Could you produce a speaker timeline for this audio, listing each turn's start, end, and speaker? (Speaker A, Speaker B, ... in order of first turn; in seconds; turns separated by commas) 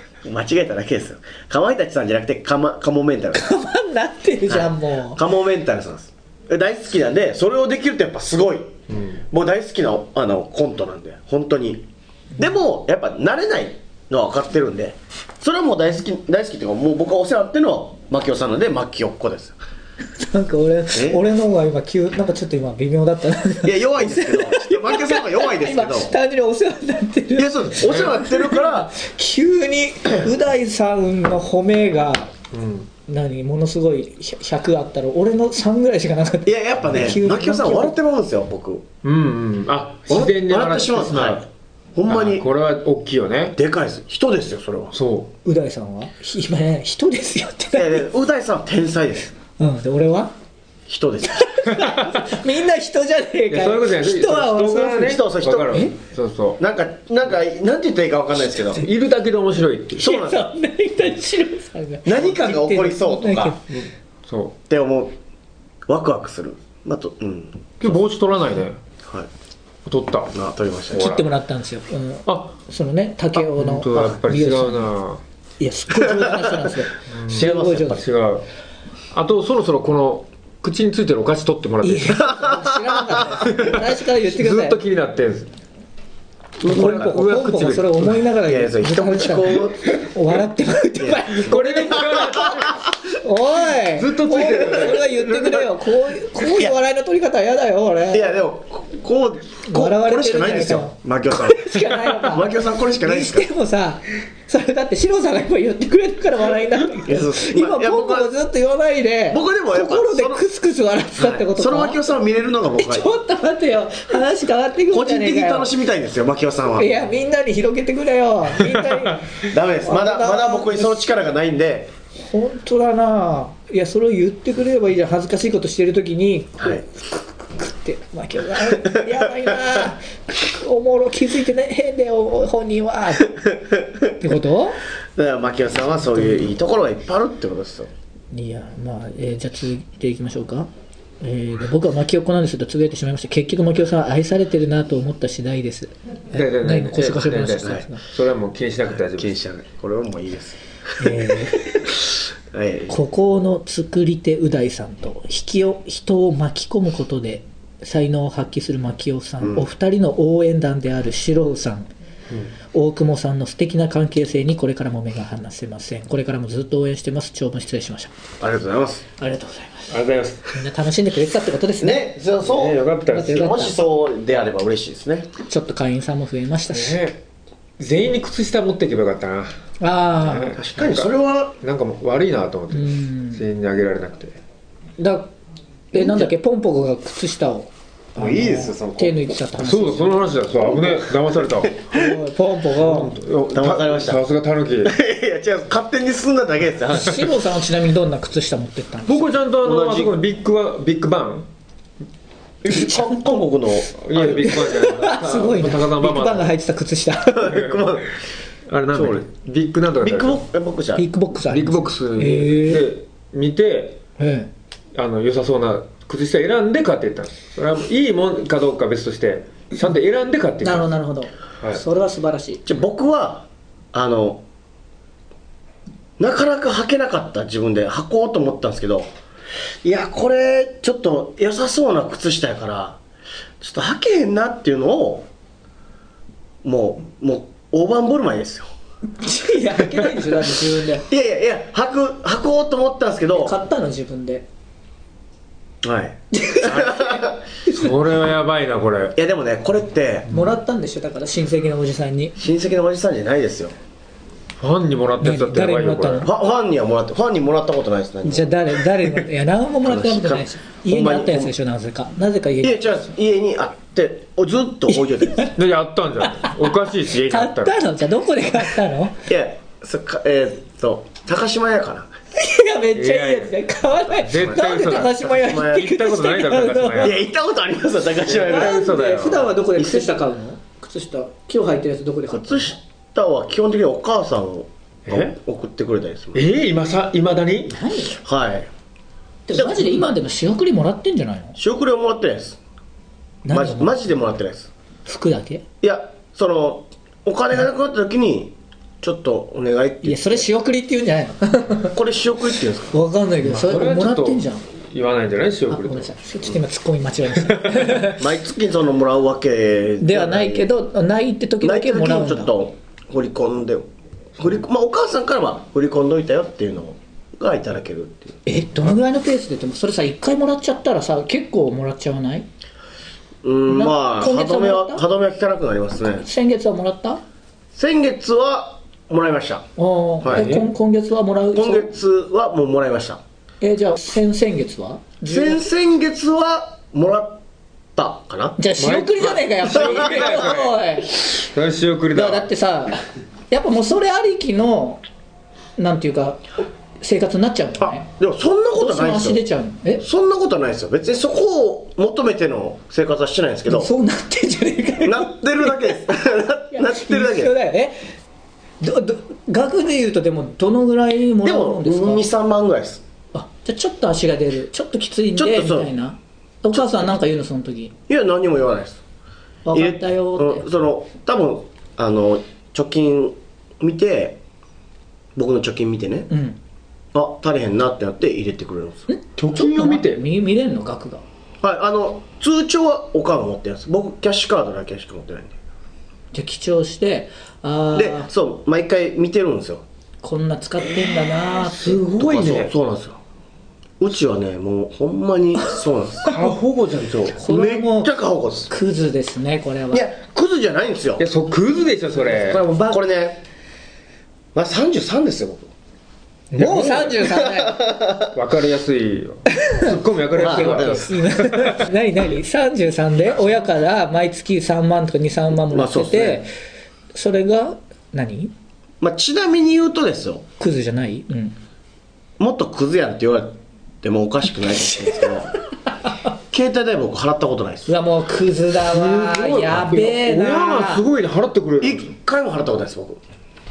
Speaker A: 0.2-3.5, Speaker B: 3.3-5.2, Speaker A: 4.5-19.6, Speaker C: 8.9-9.2, Speaker B: 20.2-32.3, Speaker A: 20.9-21.2, Speaker A: 23.6-26.1, Speaker A: 27.4-28.9, Speaker C: 27.8-28.2, Speaker C: 32.5-32.9, Speaker B: 33.1-38.0, Speaker A: 36.5-38.9, Speaker C: 39.0-41.5, Speaker A: 40.1-42.5, Speaker C: 42.1-43.6, Speaker A: 43.6-45.0, Speaker C: 44.9-45.3, Speaker B: 45.5-48.1, Speaker A: 47.7-49.3, Speaker B: 49.6-50.3, Speaker A: 50.9-51.6, Speaker B: 51.4-55.2, Speaker C: 51.7-52.3, Speaker C: 53.5-56.6, Speaker A: 54.9-55.9, Speaker A: 56.6-58.9, Speaker C: 58.7-60.1, Speaker A: 60.0-60.5, Speaker B: 60.0-63.6, Speaker A: 62.0-63.6, Speaker C: 63.7-64.6, Speaker A: 64.7-65.2, Speaker A: 65.9-68.0, Speaker C: 67.8-68.8, Speaker A: 69.0-69.3, Speaker C: 69.8-70.4, Speaker A: 70.3-71.1, Speaker C: 70.9-71.3, Speaker B: 70.9-74.9, Speaker C: 72.3-72.6, Speaker C: 73.4-75.2, Speaker B: 75.6-78.0, Speaker A: 76.1-76.6, Speaker C: 77.1-78.5, Speaker A: 77.3-78.0, Speaker C: 79.1-82.3, Speaker B: 81.8-84.8, Speaker A: 82.2-83.6, Speaker C: 83.4-85.5, Speaker C: 86.6-88.2, Speaker B: 86.7-92.5, Speaker A: 86.8-87.1, Speaker A: 88.5-90.0, Speaker A: 91.0-92.9, Speaker C: 91.4-92.8, Speaker B: 93.2-98.3, Speaker C: 94.0-95.7, Speaker A: 96.4-96.8, Speaker A: 98.1-103.5, Speaker B: 99.7-112.0, Speaker A: 107.0-108.3, Speaker A: 109.3-110.4, Speaker A: 111.2-113.1, Speaker B: 112.8-115.7, Speaker A: 114.9-117.0, Speaker B: 116.8-121.1, Speaker A: 119.4-121.9, Speaker B: 122.2-133.5, Speaker A: 126.6-126.8, Speaker A: 128.7-129.6, Speaker A: 133.4-134.1, Speaker B: 134.2-134.8, Speaker A: 135.2-137.9, Speaker B: 138.3-140.7, Speaker B: 141.2-148.0, Speaker C: 146.3-149.4, Speaker A: 148.9-151.3, Speaker B: 151.0-151.9, Speaker A: 152.5-153.0, Speaker B: 152.9-161.9, Speaker B: 162.7-168.1, Speaker A: 168.4-169.1, Speaker B: 169.2-169.9, Speaker C: 169.9-170.5, Speaker B: 170.5-172.2, Speaker A: 171.8-175.3, Speaker C: 172.4-173.6, Speaker B: 173.1-173.8, Speaker B: 175.5-177.0, Speaker C: 176.7-177.2, Speaker C: 177.8-179.5, Speaker B: 179.8-180.6, Speaker C: 180.2-181.1, Speaker A: 180.5-181.6, Speaker C: 181.6-184.4, Speaker B: 182.7-183.4, Speaker B: 185.0-185.3, Speaker B: 185.9-190.2, Speaker A: 185.9-186.3, Speaker A: 188.2-189.3, Speaker C: 189.6-191.8, Speaker A: 190.6-192.1, Speaker B: 191.9-193.1, Speaker C: 192.8-194.9, Speaker A: 193.5-194.2, Speaker A: 194.8-197.3, Speaker B: 196.9-199.3, Speaker C: 199.1-201.5, Speaker A: 199.6-200.2, Speaker A: 202.6-204.6, Speaker B: 202.7-203.2, Speaker C: 204.0-206.5, Speaker B: 204.4-207.5, Speaker A: 207.3-208.1, Speaker C: 207.5-207.9, Speaker C: 208.7-210.4, Speaker A: 208.9-209.2, Speaker A: 210.0-211.1, Speaker B: 211.0-212.9, Speaker C: 211.5-214.0, Speaker B: 214.2-214.5, Speaker C: 214.9-220.9, Speaker B: 220.6-222.6, Speaker A: 222.7-224.4, Speaker A: 226.2-229.1, Speaker A: 229.8-233.0, Speaker A: 233.6-235.3, Speaker A: 236.6-238.7, Speaker B: 239.2-241.1, Speaker A: 241.1-243.6, Speaker B: 243.3-244.5, Speaker A: 245.8-247.4, Speaker B: 246.3-247.9, Speaker C: 247.7-249.2, Speaker A: 249.2-250.3, Speaker B: 250.3-252.4, Speaker A: 252.4-253.8, Speaker C: 254.6-256.3, Speaker B: 255.2-256.3, Speaker A: 256.2-258.9, Speaker B: 258.2-263.1, Speaker A: 259.8-261.5, Speaker A: 262.6-265.5, Speaker B: 264.9-265.5, Speaker C: 265.6-267.8, Speaker B: 266.3-266.6, Speaker B: 267.3-269.2, Speaker A: 269.3-272.1, Speaker B: 272.4-277.1, Speaker C: 272.9-273.6, Speaker C: 274.1-277.2, Speaker A: 274.3-274.6, Speaker A: 275.2-275.9, Speaker A: 277.0-278.8, Speaker C: 278.3-279.5, Speaker B: 278.3-282.8, Speaker A: 279.8-280.1, Speaker A: 282.3-286.4, Speaker C: 285.1-285.3, Speaker C: 286.4-287.7, Speaker B: 287.7-288.2, Speaker A: 288.2-288.7, Speaker B: 289.5-291.6, Speaker A: 289.5-290.1, Speaker A: 291.6-292.6, Speaker B: 293.4-294.0, Speaker A: 293.5-294.7, Speaker B: 295.1-295.6, Speaker A: 295.8-300.5, Speaker B: 300.0-301.9, Speaker A: 301.9-302.9, Speaker B: 302.9-304.6, Speaker C: 303.4-306.1, Speaker B: 305.7-308.2, Speaker C: 307.4-308.0, Speaker A: 308.1-310.7, Speaker B: 310.0-312.5, Speaker A: 311.6-318.4, Speaker B: 318.5-322.5, Speaker A: 323.4-326.3, Speaker B: 323.7-325.0, Speaker B: 326.0-327.2, Speaker A: 327.7-329.7, Speaker B: 329.8-331.9, Speaker A: 330.2-330.5, Speaker C: 330.3-330.7, Speaker A: 331.5-333.2, Speaker B: 333.6-335.6, Speaker A: 335.3-337.4, Speaker A: 337.9-338.6, Speaker B: 338.6-341.4, Speaker C: 338.8-342.5, Speaker A: 339.8-340.5, Speaker B: 342.1-345.0, Speaker B: 345.8-348.1, Speaker A: 347.8-349.4, Speaker B: 348.8-350.0, Speaker A: 350.0-353.9, Speaker B: 353.7-356.1, Speaker A: 355.0-357.5, Speaker B: 356.7-358.1, Speaker B: 358.8-362.3, Speaker A: 361.4-363.0, Speaker B: 363.3-367.9, Speaker A: 365.4-365.9, Speaker A: 366.7-367.0, Speaker A: 368.1-369.0, Speaker B: 369.6-370.7, Speaker A: 369.7-374.4, Speaker A: 375.4-376.3, Speaker B: 376.3-376.6, Speaker A: 377.1-379.1, Speaker B: 379.1-381.2, Speaker C: 379.4-380.2, Speaker A: 381.6-385.6, Speaker B: 386.3-388.3, Speaker A: 387.9-389.9, Speaker B: 390.2-392.0, Speaker C: 391.6-393.1, Speaker A: 392.2-392.8, Speaker A: 394.0-396.4, Speaker C: 396.2-397.4, Speaker B: 397.3-398.1, Speaker A: 397.4-398.7, Speaker B: 398.7-400.1, Speaker A: 399.9-401.2, Speaker C: 401.2-402.6, Speaker A: 402.4-403.4, Speaker B: 402.5-403.0, Speaker A: 404.6-405.7, Speaker C: 406.5-407.3, Speaker B: 406.5-407.8, Speaker A: 407.2-408.4, Speaker C: 408.3-411.8, Speaker B: 409.5-416.5, Speaker A: 410.4-411.2, Speaker A: 415.7-416.5, Speaker B: 417.1-418.5, Speaker A: 419.0-420.5, Speaker B: 420.6-421.6, Speaker A: 422.4-425.5, Speaker A: 426.5-427.9, Speaker B: 427.9-431.0, Speaker C: 428.9-432.1, Speaker A: 431.8-433.2